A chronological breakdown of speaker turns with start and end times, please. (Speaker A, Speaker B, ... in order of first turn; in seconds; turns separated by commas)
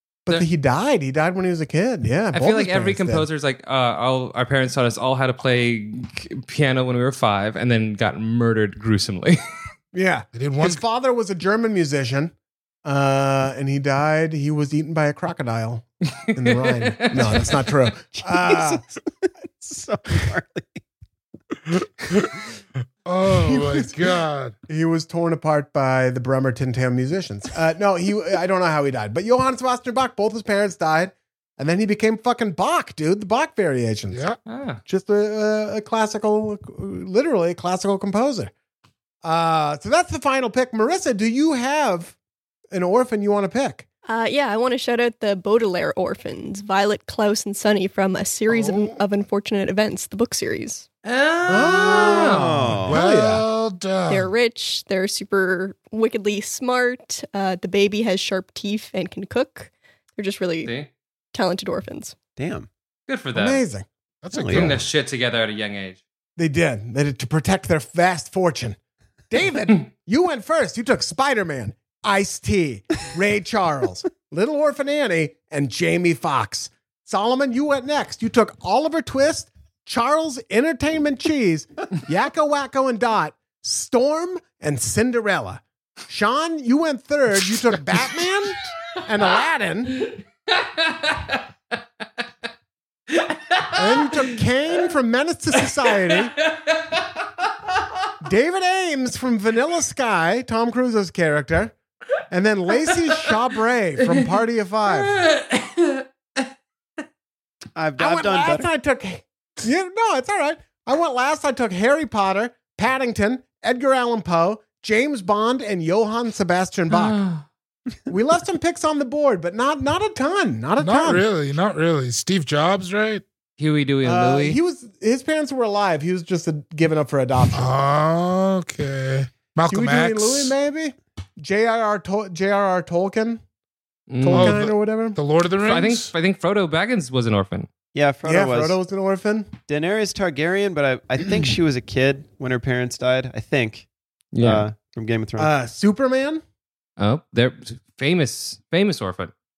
Speaker A: 0.2-3.2, Speaker B: 2.3-9.4, Speaker A: 9.9-12.3, Speaker C: 10.3-10.8, Speaker A: 12.8-18.8, Speaker B: 16.2-17.6, Speaker D: 18.2-20.8, Speaker C: 23.0-24.5, Speaker A: 23.3-34.2, Speaker C: 34.1-34.4, Speaker B: 34.5-34.8, Speaker A: 34.9-38.5, Speaker A: 39.2-42.1, Speaker A: 42.7-43.9, Speaker E: 44.0-50.9, Speaker A: 48.5-49.0, Speaker B: 51.0-52.4, Speaker A: 51.5-53.4, Speaker D: 52.3-53.0, Speaker C: 52.9-54.3, Speaker E: 54.1-60.7, Speaker B: 60.6-60.9, Speaker E: 61.3-62.1, Speaker D: 62.4-62.7, Speaker B: 63.1-63.6, Speaker A: 63.3-63.9, Speaker C: 64.2-64.8, Speaker D: 64.3-64.7, Speaker B: 64.5-66.0, Speaker A: 66.4-68.8, Speaker A: 69.3-90.0, Speaker B: 90.0-91.4, Speaker B: 93.1-94.2, Speaker A: 93.7-96.3, Speaker B: 96.1-97.0, Speaker A: 98.2-101.7, Speaker A: 102.3-105.2, Speaker B: 102.8-103.2, Speaker B: 104.9-106.0, Speaker D: 107.8-108.7, Speaker A: 108.0-117.2, Speaker B: 116.9-117.5, Speaker A: 118.1-121.2, Speaker C: 120.8-123.2, Speaker B: 123.6-124.6, Speaker A: 124.0-127.7, Speaker C: 127.5-130.5, Speaker A: 129.7-133.4, Speaker B: 134.1-134.6, Speaker A: 134.2-135.2, Speaker C: 134.2-136.1, Speaker B: 135.6-137.7, Speaker D: 137.9-138.8, Speaker A: 138.2-139.5, Speaker D: 139.7-143.9, Speaker B: 144.3-144.7, Speaker D: 144.4-145.5, Speaker A: 145.4-146.4, Speaker B: 147.0-149.3